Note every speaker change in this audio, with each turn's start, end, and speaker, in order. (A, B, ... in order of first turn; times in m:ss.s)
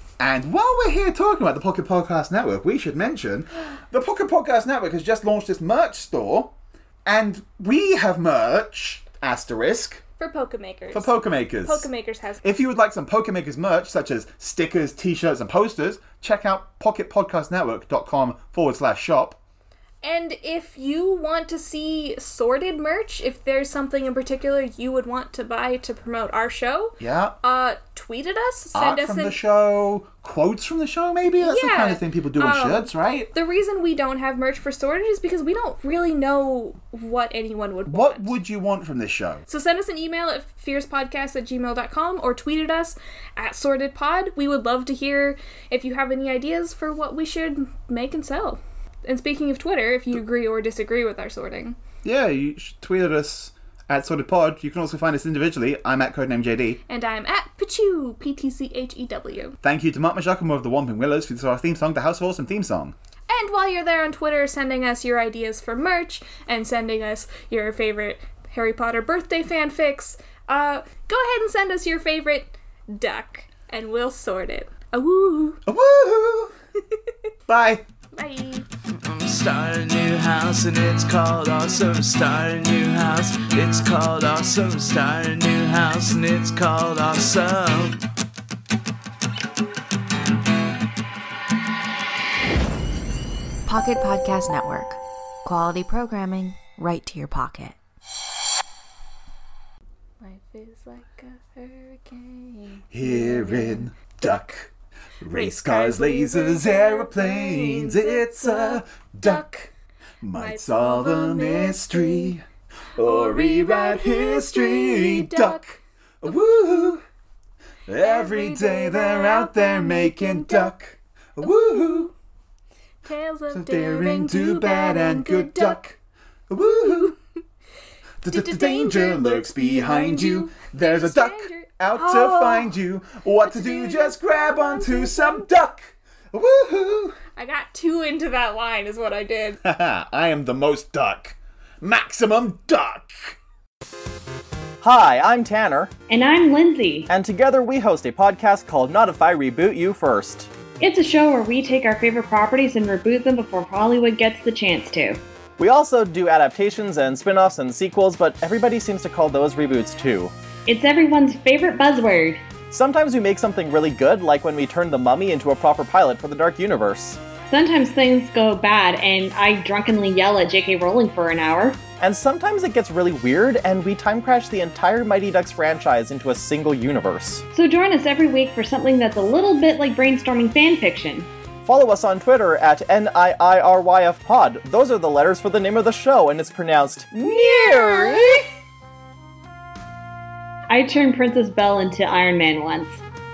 0:00.2-0:06.5 A
0:07.0-0:10.0 A
0:10.2-0:12.4 B
0:10.9-0:11.9 A
0:12.4-0:19.4 A
0:20.0-0:29.4 B
0:27.0-0:27.4 A
0:28.7-0:33.3 A
0:31.4-0:38.3 B
0:37.9-0:39.4 A
0:39.5-0:51.8 B
0:52.0-0:56.8 A
0:56.9-0:59.6 B
0:59.6-1:03.0 A
1:03.3-1:15.6 B
1:15.7-1:16.5 A
1:17.5-1:17.8 A
1:18.1-1:18.7 B
1:18.9-1:28.1 C
1:33.7-1:37.8 D
1:40.2-1:43.9 B
1:42.9-1:49.5 A
1:45.3-1:49.7 B
1:50.2-1:52.4 A
1:50.3-1:52.4 B
1:53.0-1:57.0 A
1:53.0-1:55.6 B
1:57.9-2:02.1 A
1:58.0-2:00.7 B
2:01.4-2:02.1 B
2:03.0-2:05.9 B
2:03.5-2:06.0 A
2:06.5-2:07.2 A
2:06.6-2:07.2 B
2:08.2-2:17.2 A
2:08.3-2:12.8 B
2:13.4-2:15.5 B
2:17.4-2:19.6 B
2:19.6-2:23.4 A
2:24.8-2:25.9 E
2:26.1-2:27.1 F
2:27.1-2:30.5 E
2:30.8-2:35.2 F
2:35.6-2:40.3 E
2:40.7-2:42.4 F
2:42.7-2:47.2 E
2:47.5-2:51.8 F
2:52.0-2:57.4 E
2:57.5-3:01.3 F
3:01.7-3:08.4 E
3:07.3-3:08.2 F
3:10.7-3:13.0 F